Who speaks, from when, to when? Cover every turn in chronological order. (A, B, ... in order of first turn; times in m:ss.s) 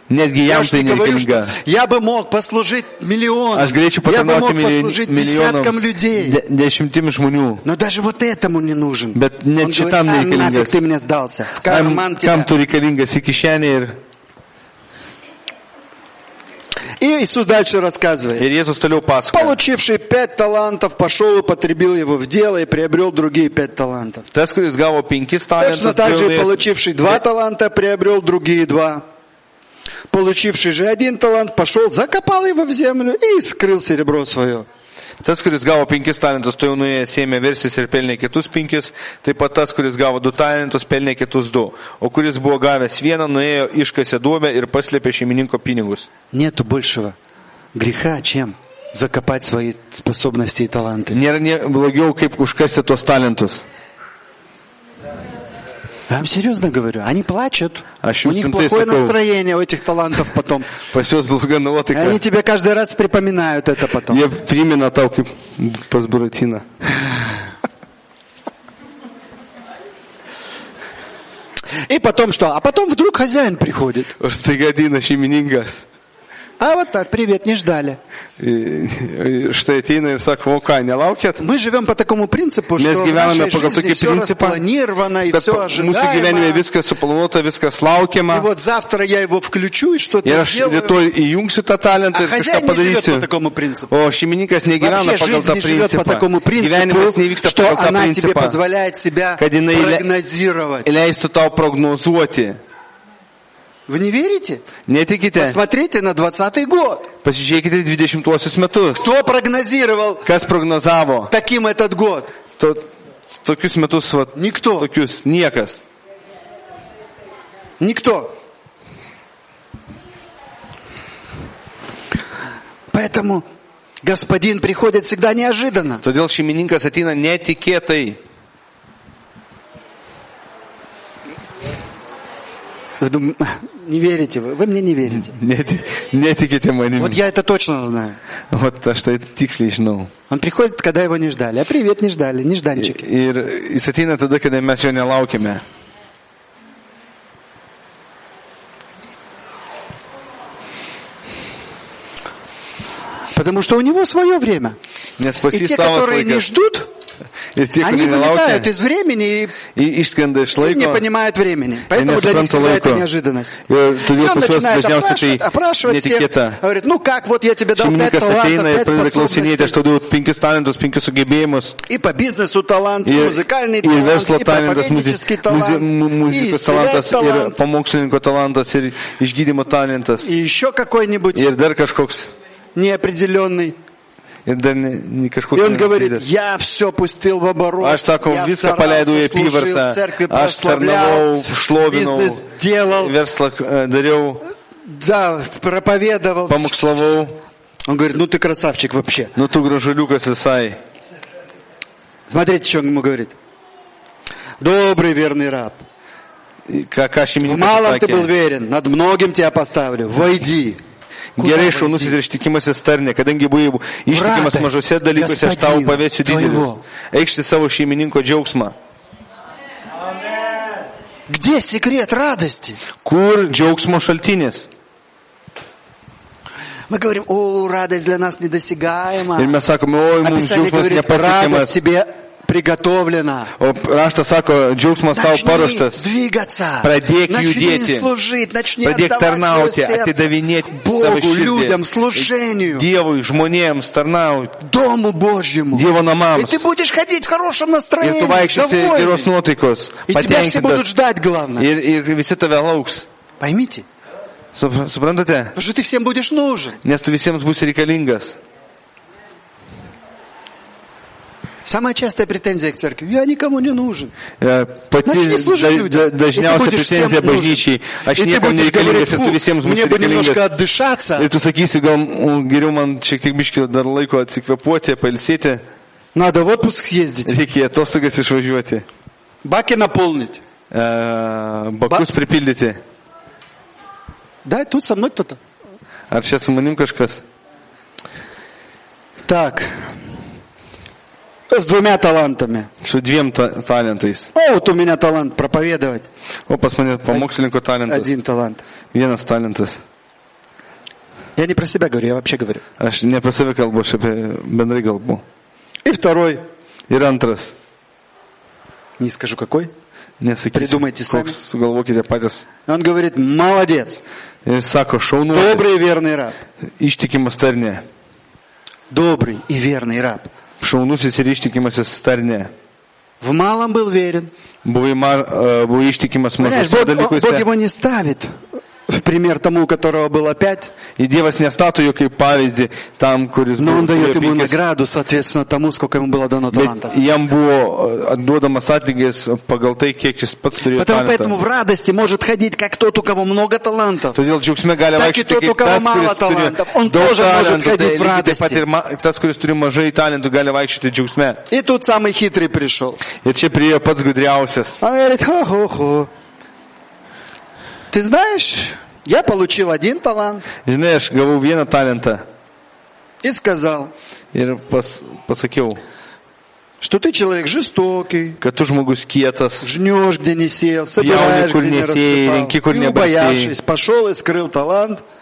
0:00.1-0:01.6 A
0:00.4-0:06.4 B
0:03.5-0:07.6 A
0:07.6-0:12.5 B
0:09.1-0:10.8 A
0:11.6-0:14.0 A
0:17.0-0:18.4 B
0:18.4-0:19.6 A
0:19.3-0:24.3 B
0:24.3-0:27.2 A
0:25.6-0:29.0 B
0:30.1-0:34.7 B
0:35.2-0:46.1 A
0:46.3-0:47.1 B
0:47.7-0:51.2 B
0:51.1-0:53.6 A
0:56.1-1:00.8 B
0:58.0-0:59.2 A
1:00.9-1:02.2 A
1:01.9-1:04.2 B
1:04.1-1:06.6 A
1:11.8-1:14.2 B
1:14.2-1:15.8 A
1:16.6-1:18.0 B
1:18.4-1:21.4 A
1:21.4-1:26.6 B
1:22.8-1:24.6 A
1:25.3-1:28.4 A
1:28.3-1:31.0 B
1:30.2-1:33.3 A
1:32.1-1:33.9 B
1:33.9-1:38.6 A
1:34.8-1:40.9 B
1:39.4-1:40.0 A
1:40.8-1:42.6 A
1:43.9-1:44.6 B
1:44.9-1:45.6 A
1:45.4-1:47.1 B
1:47.2-1:49.1 A
1:49.0-1:50.2 B
1:50.2-1:51.3 A
1:51.3-1:52.3 B
1:52.6-1:52.8 A
1:53.4-1:55.8 A
1:54.3-1:54.9 B
1:57.8-1:58.3 B
2:02.9-2:03.4 B
2:04.0-2:06.0 B
2:06.0-2:08.2 A
2:13.0-2:15.3 B
2:15.1-2:17.2 A
2:17.0-2:18.2 B
2:18.5-2:20.1 A
2:20.3-2:23.0 B
2:22.8-2:25.6 A
2:33.3-2:34.8 B
2:35.2-2:36.4 A
2:35.5-2:36.9 B
2:37.5-2:38.7 A
2:37.8-2:39.6 B
2:39.7-2:41.0 A
2:40.6-2:49.7 B
2:41.9-2:43.1 A
2:43.6-2:46.6 A
2:47.7-2:51.8 A
2:51.9-2:57.6 B
2:53.0-3:00.3 A
3:00.2-3:01.5 B
3:01.3-3:02.3 A
3:02.7-3:03.8 B
3:04.4-3:06.2 A
3:05.5-3:13.1 B
3:07.8-3:14.4 A
3:14.8-3:17.0 B
3:16.5-3:17.4 A
3:17.9-3:19.3 B
3:19.4-3:20.8 A
3:22.3-3:23.4 B
3:24.6-3:25.8 B
3:26.7-3:28.3 A
3:27.4-3:30.8 B
3:31.4-3:38.7 A
3:31.4-3:32.2 B
3:34.1-3:36.8 B
3:41.3-3:42.8 B
3:43.0-3:44.7 A
3:46.9-3:49.6 B
3:49.4-3:51.8 A
3:50.2-3:53.5 B
3:53.6-3:56.0 A
3:55.1-4:02.8 B
3:56.8-3:58.1 A
3:58.8-4:04.6 A
4:04.6-4:09.3 B
4:05.7-4:06.6 A
4:08.0-4:10.9 A
4:10.1-4:11.7 B
4:11.6-4:13.1 A
4:13.4-4:13.8 B
4:14.5-4:15.5 A
4:15.5-4:16.8 B
4:16.8-4:18.4 A
4:21.6-4:24.1 B
4:24.4-4:30.4 A
4:25.0-4:31.3 B
4:31.2-4:35.6 A
4:36.1-4:37.4 B
4:37.2-4:38.8 A
4:39.4-4:40.4 B
4:40.7-4:42.8 A
4:44.4-4:45.4 B
4:46.1-4:47.2 A
4:49.3-4:49.8 B
4:51.5-4:52.7 B
4:52.8-4:54.3 A
4:54.3-4:56.1 B
4:56.5-4:58.1 A
4:57.9-4:58.6 B
4:58.9-4:59.8 A
5:01.4-5:02.6 B
5:02.8-5:05.2 A
5:05.8-5:06.4 B
5:06.9-5:07.5 A
5:09.0-5:09.7 B
5:10.2-5:12.4 A
5:10.5-5:11.4 B
5:12.6-5:14.0 B
5:14.4-5:15.7 A
5:15.3-5:16.4 B
5:16.8-5:17.8 A
5:18.9-5:20.3 B
5:20.6-5:22.5 A
5:23.2-5:24.3 B
5:24.6-5:27.4 A
5:26.4-5:28.3 B
5:28.9-5:30.7 B
5:31.0-5:34.6 A
5:33.6-5:36.9 B
5:36.5-5:41.4 A
5:40.7-5:44.2 B
5:44.1-5:51.4 A
5:44.9-5:48.6 B
5:51.5-5:53.0 B
5:53.2-5:54.8 A
5:54.8-5:56.1 B
5:57.9-6:00.5 B
6:00.6-6:02.2 A
6:03.2-6:03.9 B
6:04.3-6:05.8 A
6:06.8-6:08.4 B
6:08.4-6:09.7 A
6:09.6-6:15.0 B
6:11.0-6:13.5 A